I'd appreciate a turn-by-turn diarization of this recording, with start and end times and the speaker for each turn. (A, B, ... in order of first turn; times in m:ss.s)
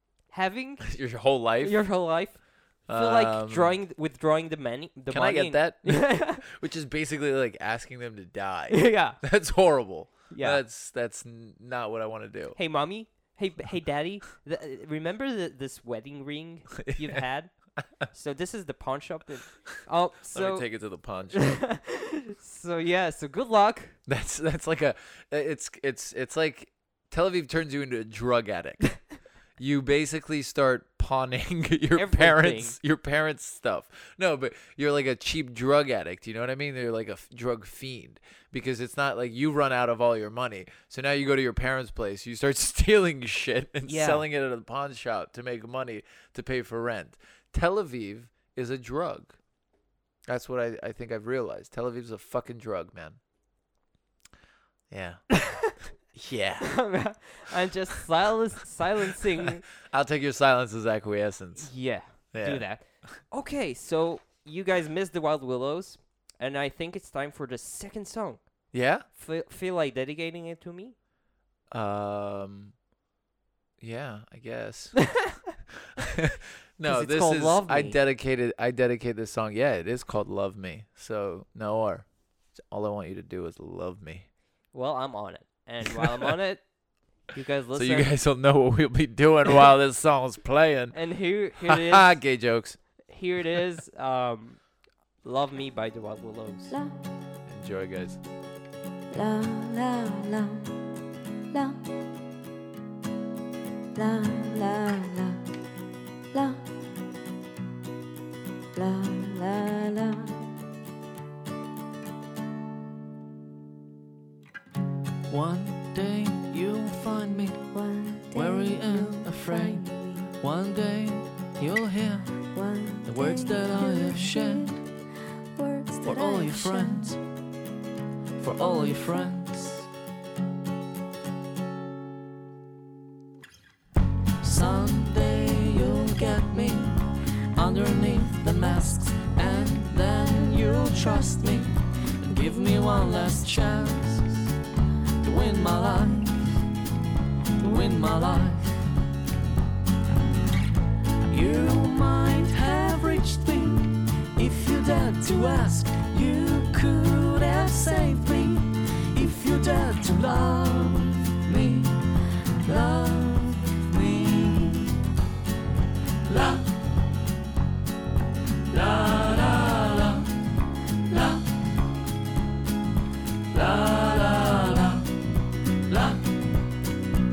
0:00.3-0:00.9 A
0:00.8-0:01.8 B
0:01.6-0:06.4 A
0:02.9-0:03.8 B
0:05.1-0:12.6 B
0:08.7-0:09.2 A
0:10.3-0:10.6 A
0:12.6-0:17.5 A
0:16.8-0:17.2 B
0:18.1-0:20.7 A
0:20.3-0:21.6 B
0:21.3-0:24.0 A
0:24.1-0:49.4 B
0:31.9-0:32.8 A
0:43.8-0:44.2 A
0:50.3-0:53.2 B
0:54.9-0:55.4 B
0:56.1-0:56.8 B
0:56.6-0:59.6 A
0:59.4-1:02.6 B
1:01.6-1:08.4 A
1:08.7-1:09.0 B
1:09.1-1:10.9 A
1:11.7-1:12.7 B
1:13.8-1:15.2 B
1:16.0-1:24.2 B
1:16.8-1:18.0 A
1:24.7-1:26.6 A
1:25.8-1:26.3 B
1:27.3-1:28.1 A
1:27.7-1:31.0 B
1:30.9-1:32.2 A
1:31.6-1:32.8 B
1:33.1-1:34.6 A
1:35.2-1:36.7 A
1:36.7-1:37.0 C
1:37.5-1:38.2 B
1:39.1-1:40.7 C
1:41.5-1:41.8 C
1:43.9-1:45.4 C
1:46.3-1:46.6 C
1:48.7-1:50.4 C
1:55.3-1:57.6 D
1:57.7-2:00.3 C
1:58.3-1:59.9 D
2:00.4-2:02.3 D
2:02.5-2:04.8 C
2:03.0-2:04.8 D
2:05.5-2:07.1 C
2:06.0-2:07.2 D
2:08.4-2:09.9 D
2:08.6-2:09.3 C
2:14.4-2:24.4 D
2:25.2-2:26.6 D
2:27.6-2:28.8 D
2:31.3-2:42.1 D
2:42.6-2:44.9 D
2:46.3-2:46.6 D
2:48.7-2:50.2 D
2:53.5-2:55.0 D